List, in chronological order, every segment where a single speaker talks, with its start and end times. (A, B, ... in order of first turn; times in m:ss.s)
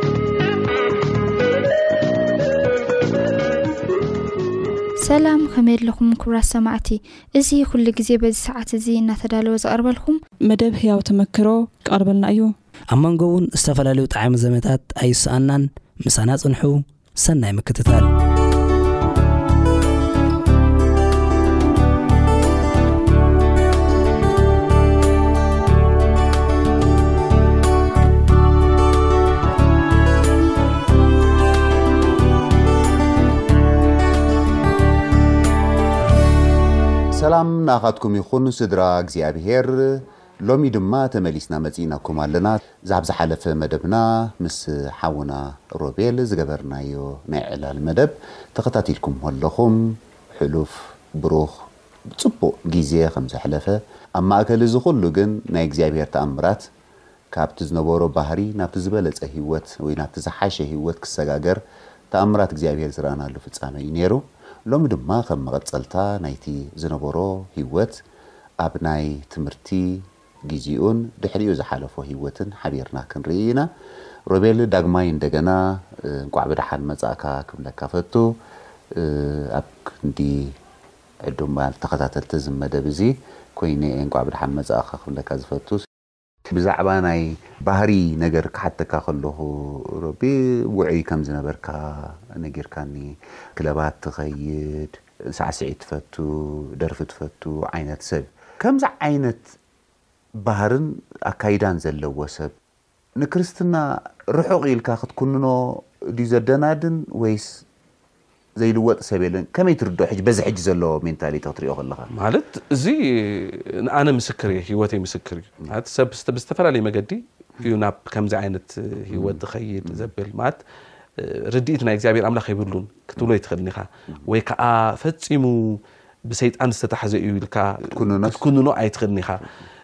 0:05.0-0:10.2 A
0:10.4-0:12.5 B
0:12.9-0:18.1 C
0:37.1-0:56.7 D
0:57.3-1:01.6 D
1:02.1-1:08.0 D
1:08.6-1:13.7 D
1:14.3-1:18.3 D
1:18.9-1:20.5 D
1:21.2-1:25.8 D
1:26.5-1:39.5 D
1:40.4-1:42.5 D
1:43.2-1:47.6 D
1:48.6-1:52.1 D
1:52.1-2:00.6 E
1:59.1-2:00.1 D
2:01.2-2:09.4 E
2:07.9-2:08.4 D